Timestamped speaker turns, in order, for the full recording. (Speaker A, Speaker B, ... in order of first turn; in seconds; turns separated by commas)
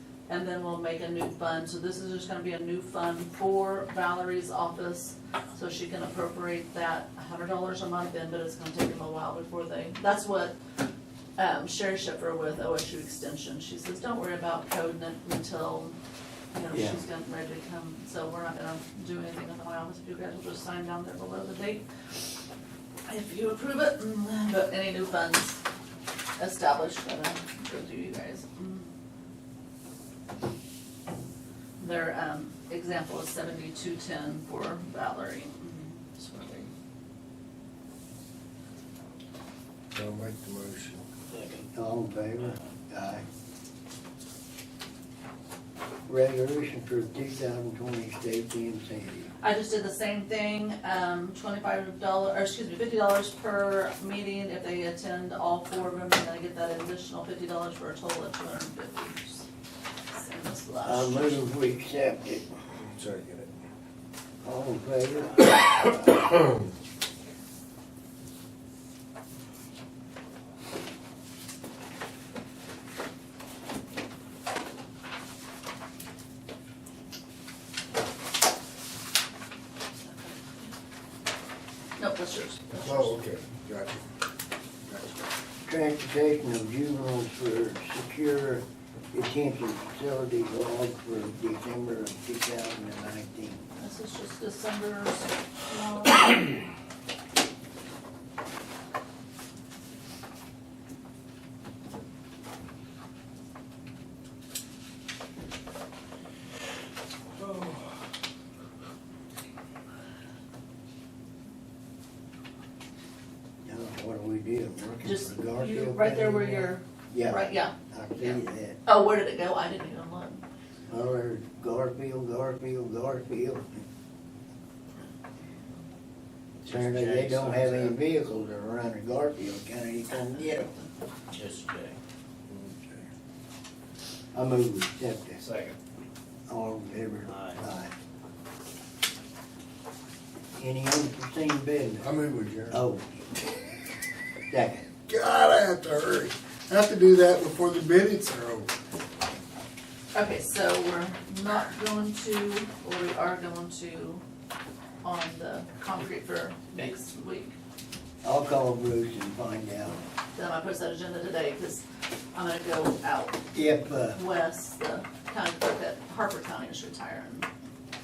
Speaker A: 0.3-10.6, Speaker A: 11.4-16.0, Speaker A: 16.5-21.8, Speaker B: 16.7-17.0, Speaker A: 23.1-25.6, Speaker A: 26.4-28.9, Speaker A: 31.8-36.7, Speaker C: 39.9-41.0, Speaker D: 41.3-41.6, Speaker B: 41.7-43.2, Speaker B: 46.1-49.3, Speaker A: 49.4-59.5, Speaker A: 60.1-61.4, Speaker B: 60.8-62.5, Speaker C: 62.8-63.5, Speaker B: 64.4-66.3, Speaker A: 80.0-80.7, Speaker A: 82.0-83.2, Speaker C: 82.7-84.1, Speaker C: 84.9-85.3, Speaker B: 85.7-93.7, Speaker A: 93.8-96.6, Speaker B: 113.6-118.8, Speaker A: 115.0-120.4, Speaker B: 120.9-123.8, Speaker D: 126.6-128.0, Speaker B: 126.6-130.8, Speaker D: 131.3-132.0, Speaker C: 132.5-133.1, Speaker B: 134.3-135.4, Speaker D: 135.4-135.8, Speaker B: 136.5-137.9, Speaker D: 137.3-137.6, Speaker B: 140.6-142.1, Speaker C: 142.0-142.8, Speaker B: 142.7-143.1, Speaker B: 144.5-144.9, Speaker C: 145.1-148.7, Speaker A: 150.1-154.2, Speaker A: 155.0-157.6, Speaker B: 158.2-160.0, Speaker A: 160.3-163.5, Speaker B: 163.5-164.2, Speaker A: 164.1-167.5